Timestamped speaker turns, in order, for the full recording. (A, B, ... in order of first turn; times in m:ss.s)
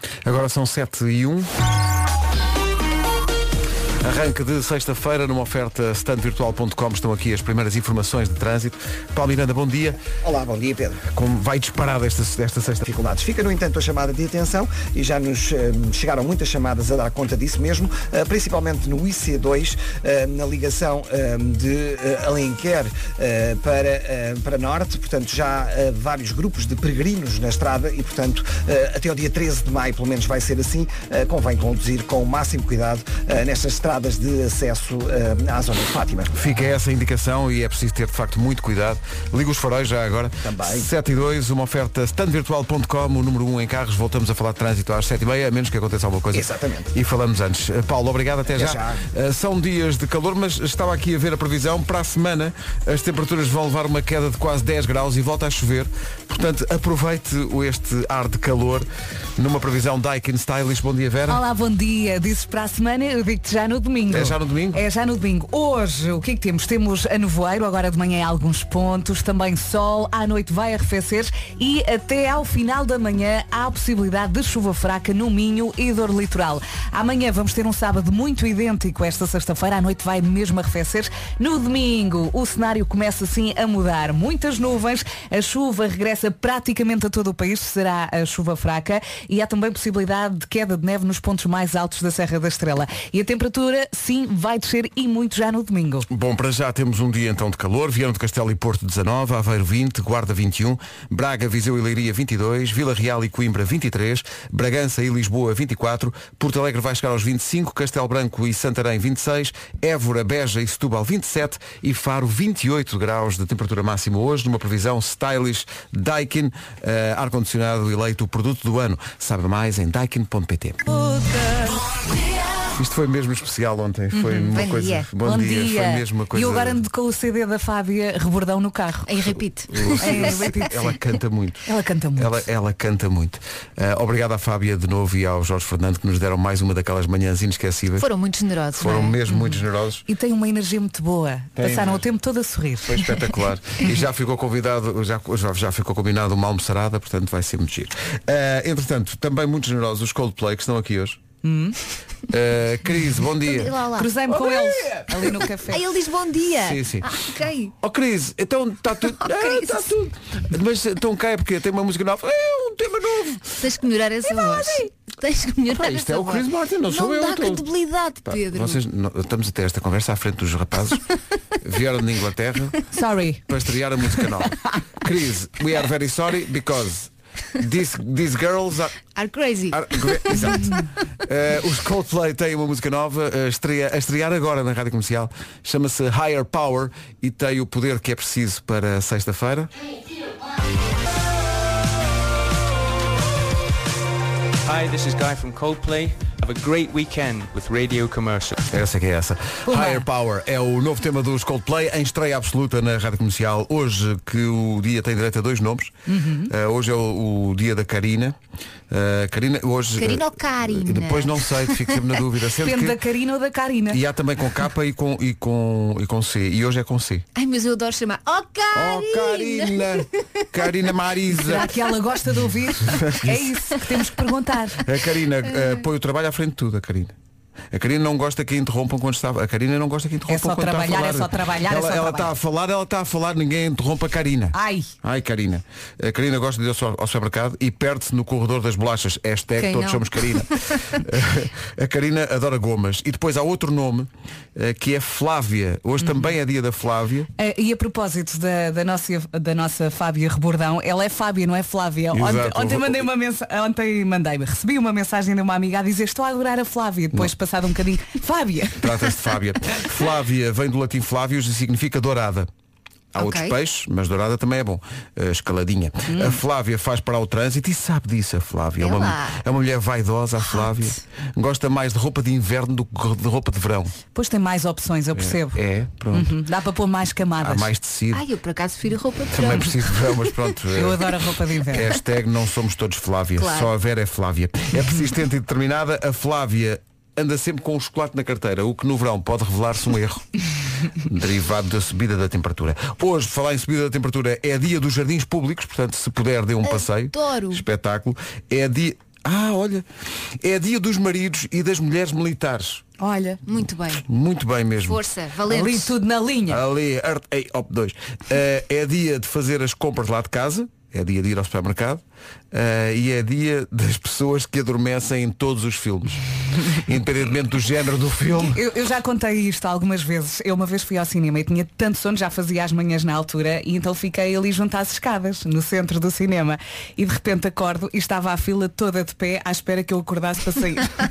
0:00.2-0:01.5 A
0:04.0-0:10.0 A
0:10.2-0:11.0 B
0:11.1-0:12.8 A
0:12.8-0:36.4 B
0:36.3-1:01.4 A
0:40.4-0:40.9 B
0:46.3-0:46.9 B
0:48.5-0:49.0 B
1:01.3-1:36.0 C
1:04.1-1:04.8 A
1:36.1-2:00.8 A
2:01.2-2:01.5 C
2:02.8-2:06.8 A
2:04.1-2:04.5 C
2:04.5-2:05.1 D
2:05.2-2:09.3 C
2:09.1-2:10.6 D
2:09.7-2:18.1 A
2:10.0-2:10.8 C
2:11.6-2:12.4 C
2:18.0-2:19.2 D
2:18.7-2:20.0 A
2:19.3-2:23.2 C
2:21.6-2:22.0 A
2:22.8-2:31.2 A
2:31.4-2:31.8 C
2:32.3-2:33.8 A
2:33.4-2:34.2 D
2:34.0-2:35.8 C
2:35.7-2:37.7 D
2:36.6-2:37.2 A
2:37.8-2:43.6 A
2:39.2-2:39.9 D
2:43.5-2:48.8 D
2:45.7-2:47.6 A
2:48.2-2:51.0 A
2:51.6-2:52.8 A
2:52.9-2:53.4 C
2:53.5-2:59.0 A
2:59.1-3:00.7 D
2:59.7-3:09.7 A
3:14.6-3:18.5 E
3:18.7-3:25.9 A
3:19.7-3:20.0 C
3:26.1-3:26.5 C
3:26.5-3:28.4 A
3:28.9-3:33.0 A
3:30.0-3:31.9 D
3:32.6-3:34.0 C
3:33.9-3:37.2 A
3:37.3-3:40.1 D
3:38.7-3:41.7 A
3:41.3-3:44.8 C
3:42.8-3:43.5 A
3:44.8-3:47.1 A
3:47.7-4:07.3 A
3:50.3-3:52.3 C
3:54.5-3:54.9 C
3:59.6-4:00.8 D
4:06.0-4:06.3 C
4:07.4-4:18.8 C
4:12.1-4:13.1 A
4:18.8-4:22.5 A
4:23.1-4:33.9 A
4:23.2-4:23.5 D
4:26.1-4:26.4 C
4:28.8-4:29.4 D
4:34.1-4:35.6 C
4:35.1-4:36.4 A
4:36.1-4:37.7 C
4:37.4-4:38.2 A
4:38.1-4:39.8 D
4:39.3-4:41.0 A
4:40.7-4:41.9 C
4:41.7-4:50.2 A
4:43.4-4:43.7 D
4:51.0-4:59.8 A
4:56.6-4:57.6 D
5:00.4-5:02.8 A
5:03.0-5:03.4 C
5:03.4-5:04.0 D
5:04.0-5:05.0 A
5:04.8-5:06.0 D
5:05.5-5:06.6 C
5:06.5-5:18.6 A
5:18.4-5:30.9 C